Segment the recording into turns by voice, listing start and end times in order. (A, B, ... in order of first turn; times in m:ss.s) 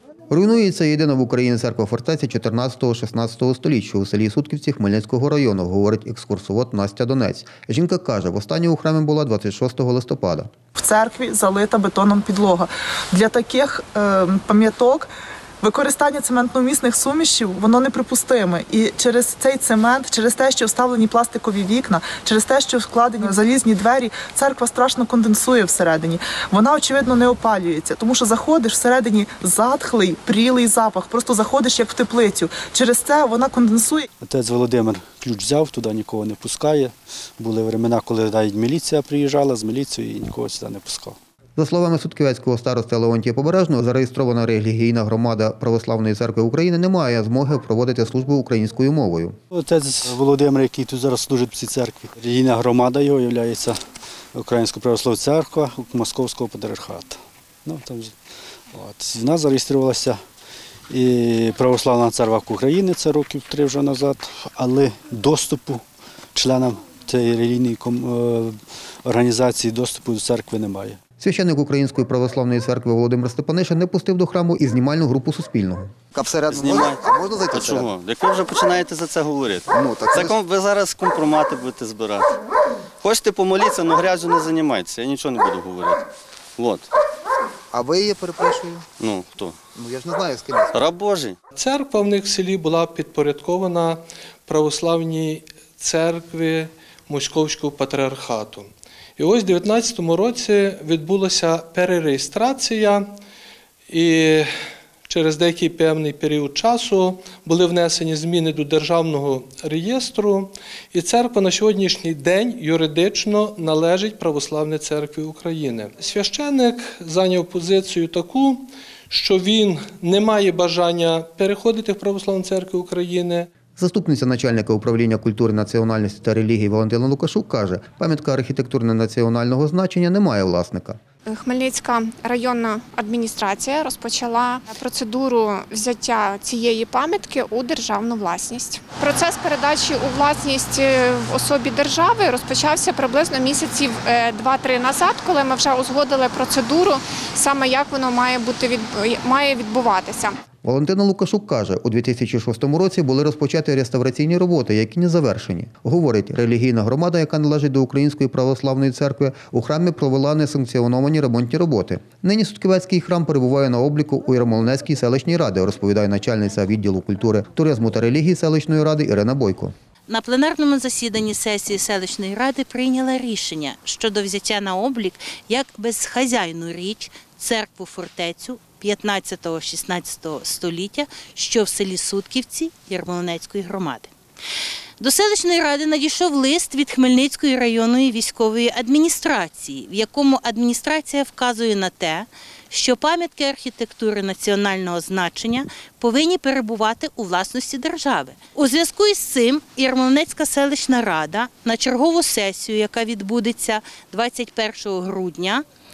0:00.3-0:10.5 A
0:10.8-0:15.1 B
0:15.6-0:34.1 B
0:34.2-0:41.2 C
0:41.6-0:49.4 A
0:49.5-0:53.8 C
0:54.3-0:58.2 C
0:58.7-1:00.2 C
1:00.9-1:05.8 C
1:06.3-1:11.0 C
1:11.2-1:17.8 A
1:16.2-1:16.4 D
1:16.7-1:17.0 E
1:17.1-1:17.5 D
1:18.2-1:19.6 E
1:19.8-1:20.3 A
1:20.1-1:22.2 E
1:23.0-1:26.0 E
1:27.8-1:28.8 D
1:27.9-1:28.6 A
1:29.1-1:29.6 E
1:30.0-1:30.2 D
1:30.0-1:30.5 A
1:30.8-1:31.4 E
1:31.5-1:43.1 F
1:43.9-1:44.5 F
1:45.1-2:03.5 F
2:03.8-2:11.0 A
2:11.3-2:30.4 G
2:30.6-2:49.7 A
2:50.1-3:04.1 H
3:05.0-3:25.6 H